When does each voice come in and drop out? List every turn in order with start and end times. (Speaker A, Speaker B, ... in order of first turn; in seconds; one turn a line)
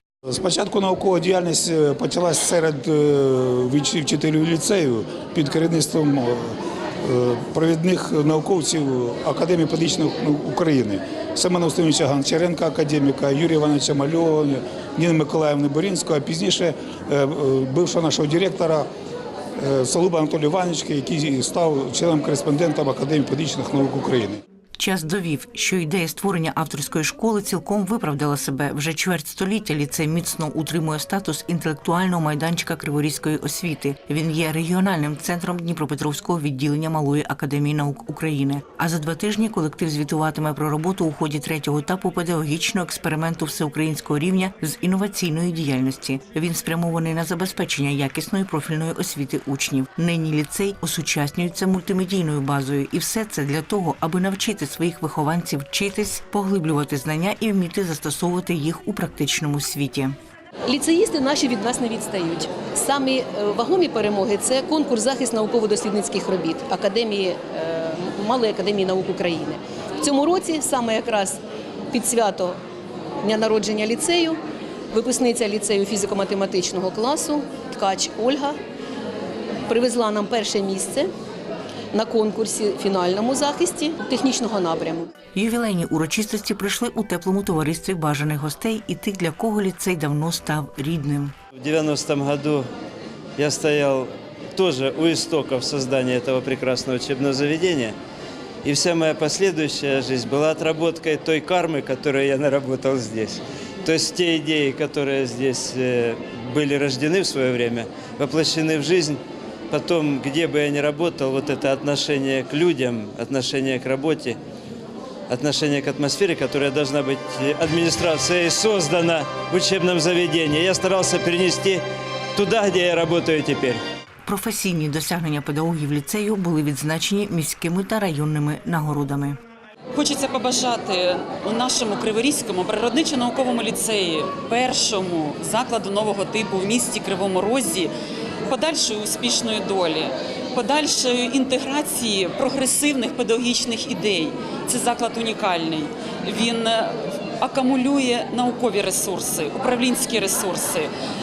Speaker A: 0.3-18.9
Speaker A: 19.6-24.4
Speaker B: 24.8-60.1
Speaker C: 60.7-71.4
Speaker C: 71.9-72.6
Speaker C: 73.2-74.4
Speaker C: 74.9-78.6
Speaker C: 79.7-81.1
Speaker C: 81.9-85.1
Speaker B: 85.3-91.3
Speaker D: 91.5-92.7
Speaker D: 93.4-98.0
Speaker D: 98.6-109.2
Speaker D: 109.7-114.4
Speaker D: 115.3-121.8
Speaker D: 122.3-123.8
Speaker B: 124.2-129.4
Speaker E: 129.9-137.9
Speaker E: 138.5-150.9